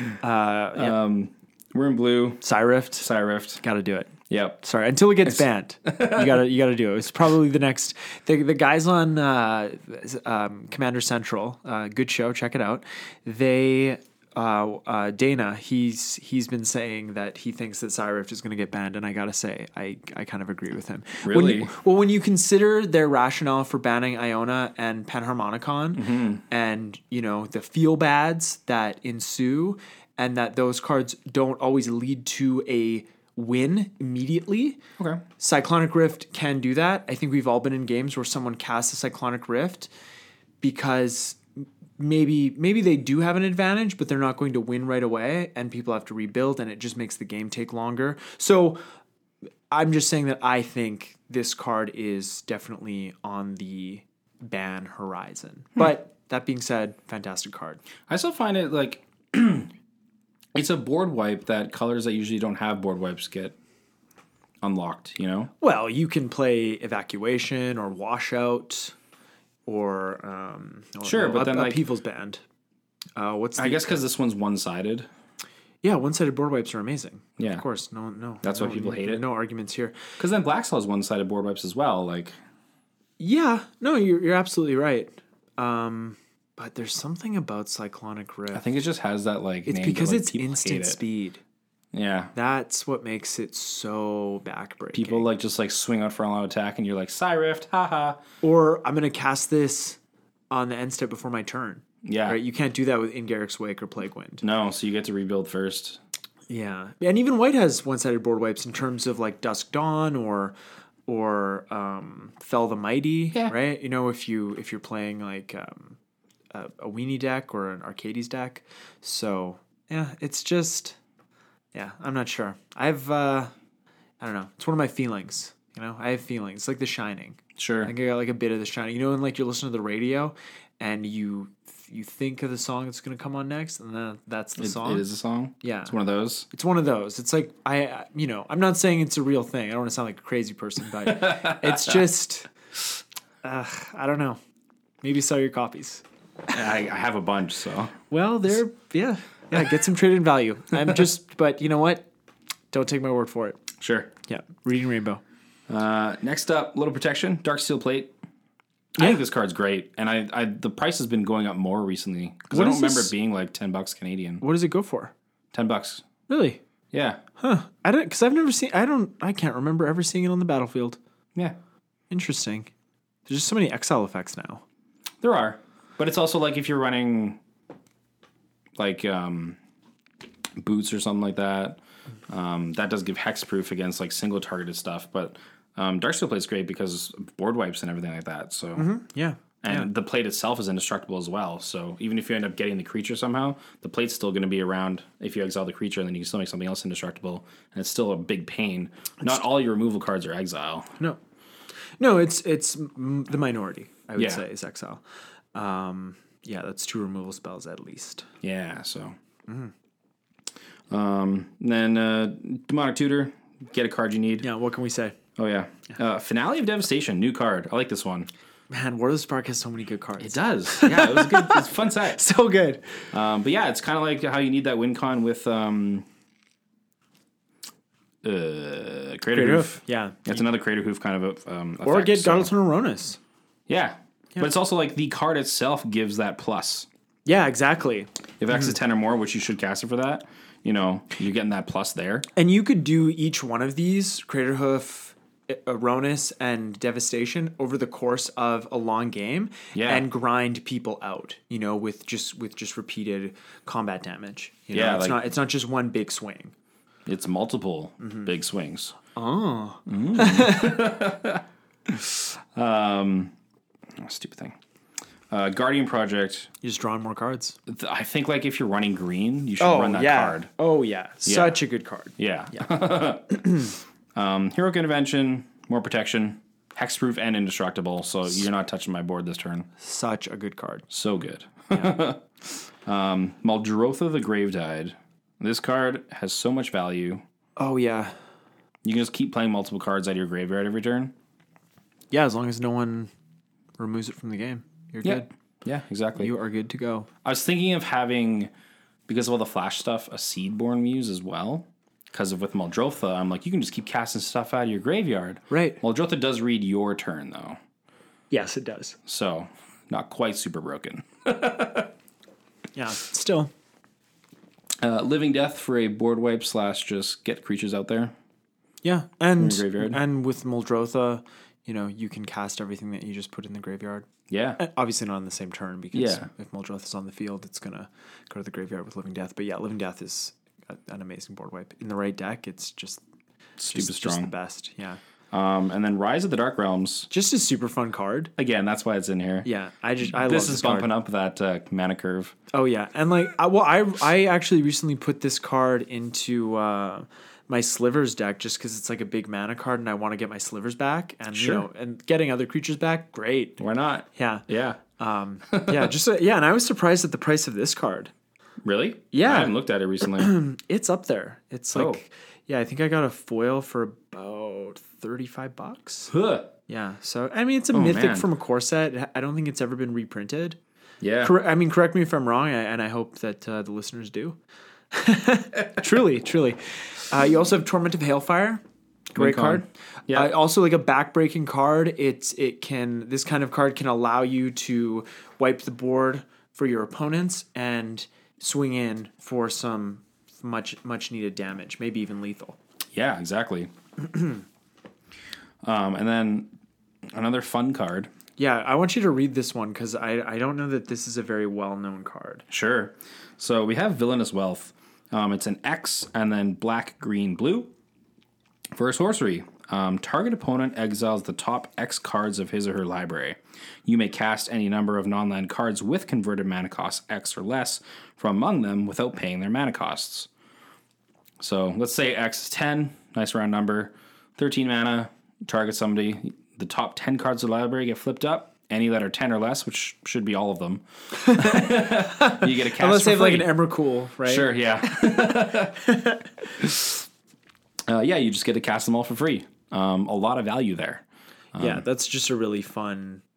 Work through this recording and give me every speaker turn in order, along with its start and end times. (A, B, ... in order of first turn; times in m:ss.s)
0:00.2-0:01.0 A
0:00.8-0:02.4 B
0:02.4-0:03.1 A
0:03.0-0:03.6 B
0:03.6-0:34.8 A
0:04.3-0:04.6 B
0:05.9-0:06.4 B
0:21.2-0:21.7 B
0:25.9-0:26.4 B
0:35.4-0:39.9 A
0:40.6-0:48.8 A
0:49.7-0:57.8 A
0:58.1-0:59.7 B
1:00.5-1:03.5 B
1:04.6-1:05.5 B
1:05.6-1:08.9 A
1:09.6-1:12.4 A
1:11.0-1:11.8 B
1:13.2-1:14.0 A
1:13.6-1:15.1 B
1:15.8-1:20.1 A
1:17.4-1:17.6 B
1:18.4-1:19.2 B
1:20.2-1:22.3 B
1:23.2-1:28.6 A
1:28.5-1:31.0 B
1:29.6-1:31.4 A
1:31.9-1:32.3 B
1:32.3-1:35.3 A
1:34.9-1:38.2 B
1:38.4-1:40.0 A
1:40.5-1:44.4 A
1:42.0-1:42.4 B
1:44.4-1:46.0 B
1:46.5-1:50.5 A
1:51.1-1:56.0 A
1:56.5-2:01.0 A
2:01.7-2:03.5 A
2:04.2-2:15.0 A
2:07.6-2:07.9 B
2:14.6-2:16.4 B
2:15.6-2:15.9 A
2:16.5-2:22.5 A
2:21.0-2:22.0 B
2:23.4-2:24.4 A
2:25.0-2:26.0 A
2:26.5-2:27.9 B
2:28.1-2:32.1 A
2:32.7-2:33.6 A
2:33.8-2:34.1 B
2:34.3-2:35.2 A
2:35.7-2:38.1 B
2:39.0-2:44.4 B
2:42.5-2:43.1 A
2:44.4-2:45.1 A
2:45.5-2:46.1 B
2:46.3-2:46.6 A
2:46.9-2:47.2 B
2:47.4-2:51.0 A
2:52.1-2:52.7 A
2:53.3-2:54.6 A
2:55.2-2:57.4 B
2:58.8-2:59.6 B
3:00.6-3:08.9 B
3:08.8-3:09.9 A
3:09.6-3:20.9 B
3:22.0-3:25.0 A
3:24.2-3:24.4 B
3:25.5-3:28.2 A
3:28.4-3:29.2 B
3:29.5-3:29.7 A
3:30.9-3:34.4 B
3:34.4-3:35.2 A
3:35.4-3:38.3 B
3:38.7-3:43.1 A
3:40.2-3:42.2 B
3:43.1-3:46.0 B
3:48.2-3:52.5 B
3:49.3-3:50.4 A
3:51.8-3:53.2 A
3:53.7-3:56.9 B
3:57.2-3:58.7 A
3:58.4-4:02.3 B
4:02.4-4:16.5 A
4:09.7-4:10.1 B
4:14.7-4:15.3 B
4:17.0-4:18.9 B
4:18.0-4:18.3 A
4:19.1-4:20.8 A
4:19.9-4:23.3 B
4:24.0-4:24.6 B
4:25.3-4:26.5 B
4:26.6-4:27.6 A
4:27.6-4:30.5 B
4:29.6-4:32.6 A
4:31.2-4:31.6 B
4:32.2-4:39.7 B
4:39.8-4:40.8 A
4:40.9-4:47.2 B
4:47.6-4:48.1 A
4:48.8-4:51.1 B
4:52.1-4:53.1 A
4:53.8-4:55.3 A
4:55.0-4:56.3 B
4:56.2-4:57.1 A
4:57.2-4:58.5 B
4:59.1-5:07.6 B
5:05.5-5:05.8 A
5:08.3-5:09.0 A
5:09.0-5:11.9 B
5:12.7-5:13.5 A
5:14.8-5:18.1 B
5:18.8-5:24.1 A
5:19.4-5:20.0 B
5:24.3-5:24.6 B
5:24.6-5:33.0 A
5:25.9-5:26.3 B
5:33.6-5:34.3 B
5:33.7-5:35.0 A
5:35.3-5:37.1 B
5:37.1-5:38.3 A
5:38.4-5:39.5 B
5:39.4-5:40.9 A
5:40.0-5:42.3 B
5:42.5-5:53.6 A
5:51.3-5:51.6 B
5:53.6-5:54.8 B
5:54.1-5:54.5 A
5:55.0-5:58.1 A
5:55.5-5:55.9 B
5:58.6-6:00.4 B
5:59.1-6:06.1 A
6:01.7-6:02.0 B
6:06.1-6:06.5 B
6:06.7-6:10.6 A
6:07.7-6:08.3 B
6:11.0-6:11.3 B
6:11.2-6:14.4 A
6:14.9-6:18.6 A
6:19.1-6:32.6 A
6:19.2-6:20.3 B
6:32.9-6:33.7 B
6:35.6-6:36.5 B
6:37.1-6:38.1 B
6:38.4-6:42.4 A
6:42.5-6:47.7 B
6:48.7-7:00.3 B
7:01.4-7:13.6 B
7:11.3-7:15.3 A
7:14.2-7:15.9 B
7:15.8-7:16.2 A
7:16.6-7:17.0 B
7:17.9-7:21.8 B
7:21.6-7:23.2 A